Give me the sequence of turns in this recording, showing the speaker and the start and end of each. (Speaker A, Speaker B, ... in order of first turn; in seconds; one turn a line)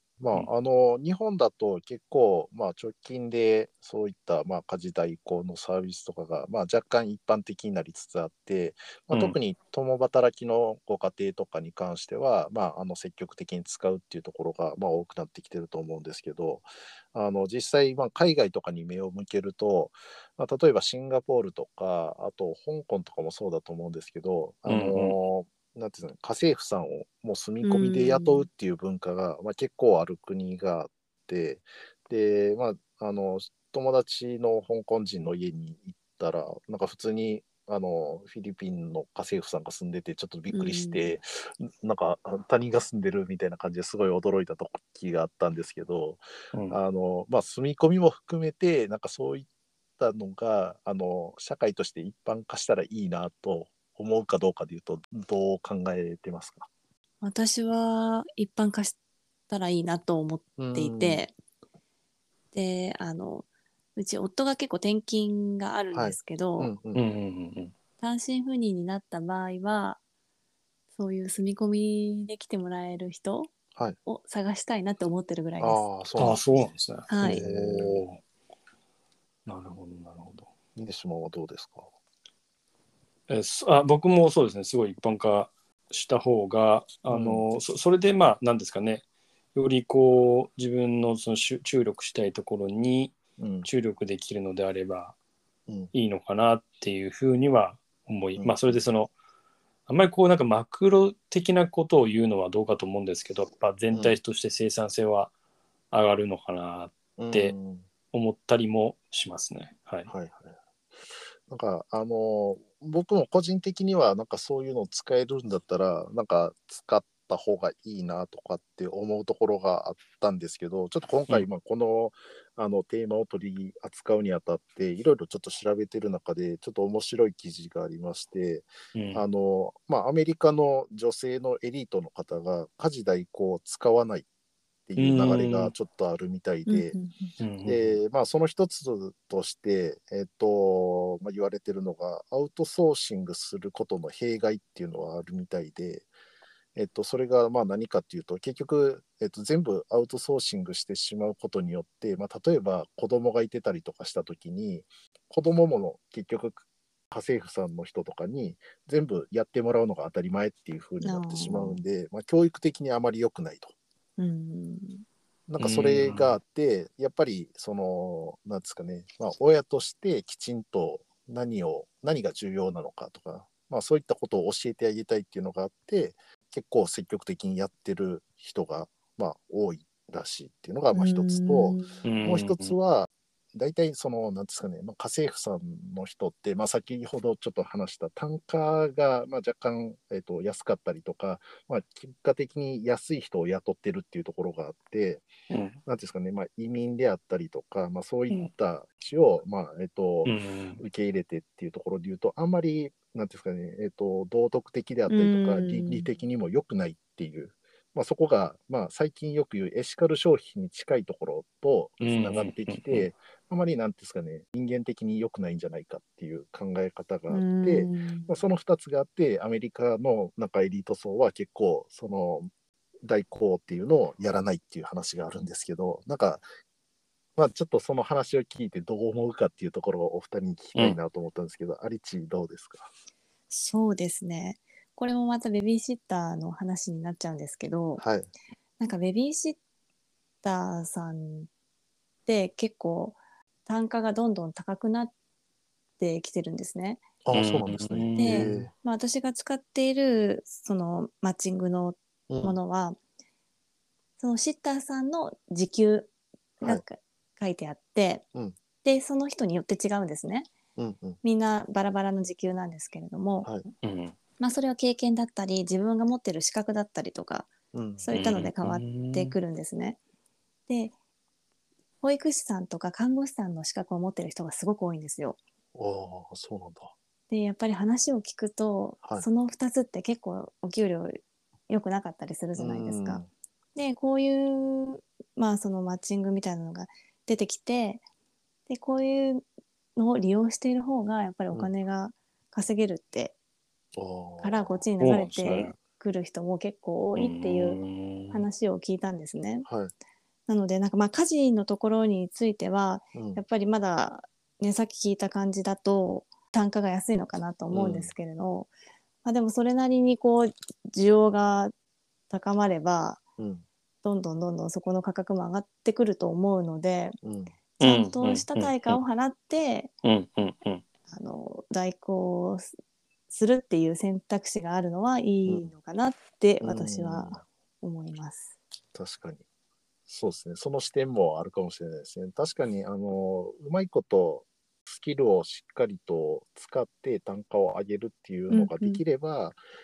Speaker A: 0.2-49.5
Speaker B: 24.7-25.1
Speaker C: 27.6-28.5
Speaker C: 40.5-41.1
Speaker B: 46.5-46.8
Speaker A: 50.0-56.7
Speaker C: 57.2-59.0
Speaker C: 59.5-61.3
Speaker A: 60.6-61.2
Speaker C: 62.5-63.5
Speaker C: 64.0-66.7
Speaker A: 65.9-67.0
Speaker B: 66.9-67.7
Speaker C: 68.0-70.0
Speaker C: 70.9-73.5
Speaker C: 74.0-75.9
Speaker A: 75.6-76.4
Speaker B: 76.2-78.2
Speaker C: 77.1-77.4
Speaker A: 77.2-78.1
Speaker B: 79.5-80.5
Speaker A: 80.8-81.9
Speaker B: 83.3-89.0
Speaker A: 87.1-87.4
Speaker B: 89.5-95.2
Speaker A: 93.4-93.7
Speaker B: 95.9-99.1
Speaker A: 98.4-98.8
Speaker B: 99.9-105.3
Speaker A: 103.9-104.2
Speaker B: 105.9-107.5
Speaker A: 107.2-107.9
Speaker B: 108.1-110.1
Speaker A: 110.1-134.3
Speaker B: 128.9-129.2
Speaker A: 134.9-137.0
Speaker B: 135.0-135.7
Speaker C: 136.7-137.3
Speaker B: 137.4-137.9
Speaker A: 137.7-146.1
Speaker A: 146.8-163.7
Speaker C: 161.0-161.8
Speaker C: 164.2-165.0
Speaker A: 165.5-195.3
Speaker B: 165.6-166.4
Speaker C: 180.9-182.0
Speaker B: 182.0-182.8
Speaker B: 195.5-195.8
Speaker A: 195.9-222.5
Speaker B: 200.2-200.8
Speaker C: 205.1-206.1
Speaker B: 212.0-213.1
Speaker C: 217.3-218.4
Speaker A: 223.0-226.5
Speaker A: 227.4-232.9
Speaker C: 233.5-238.0
Speaker A: 238.0-238.3
Speaker C: 238.8-239.6
Speaker C: 240.4-241.5
Speaker C: 242.3-245.1
Speaker C: 246.0-247.0
Speaker A: 247.2-248.7
Speaker B: 247.3-248.7
Speaker C: 248.2-253.0
Speaker A: 252.3-252.6
Speaker C: 254.2-258.2
Speaker C: 258.8-260.5
Speaker A: 260.8-261.2
Speaker C: 261.2-263.5
Speaker B: 263.8-264.1
Speaker C: 264.4-267.5
Speaker A: 267.7-268.1
Speaker C: 268.0-270.0
Speaker B: 268.1-269.4
Speaker C: 270.7-270.9
Speaker C: 272.0-275.4
Speaker A: 275.8-276.9
Speaker C: 277.3-283.2
Speaker A: 282.6-283.3
Speaker C: 283.8-288.0
Speaker C: 288.7-289.4
Speaker C: 290.0-293.4
Speaker A: 293.9-294.8
Speaker C: 294.4-297.8
Speaker B: 295.0-295.7
Speaker A: 295.4-295.8
Speaker B: 297.2-298.5
Speaker C: 298.3-299.7
Speaker A: 299.6-299.9
Speaker C: 300.5-308.7
Speaker A: 303.1-303.4
Speaker A: 307.7-308.1
Speaker C: 309.2-311.7
Speaker C: 312.3-313.2
Speaker A: 313.4-313.7
Speaker C: 314.0-317.2
Speaker A: 317.2-317.6
Speaker C: 317.8-319.9
Speaker B: 317.8-319.0
Speaker B: 320.0-320.8
Speaker C: 321.1-322.7
Speaker C: 323.3-328.5
Speaker A: 325.5-325.7
Speaker A: 326.6-327.4
Speaker A: 328.9-329.4
Speaker A: 330.1-339.6
Speaker C: 338.5-339.0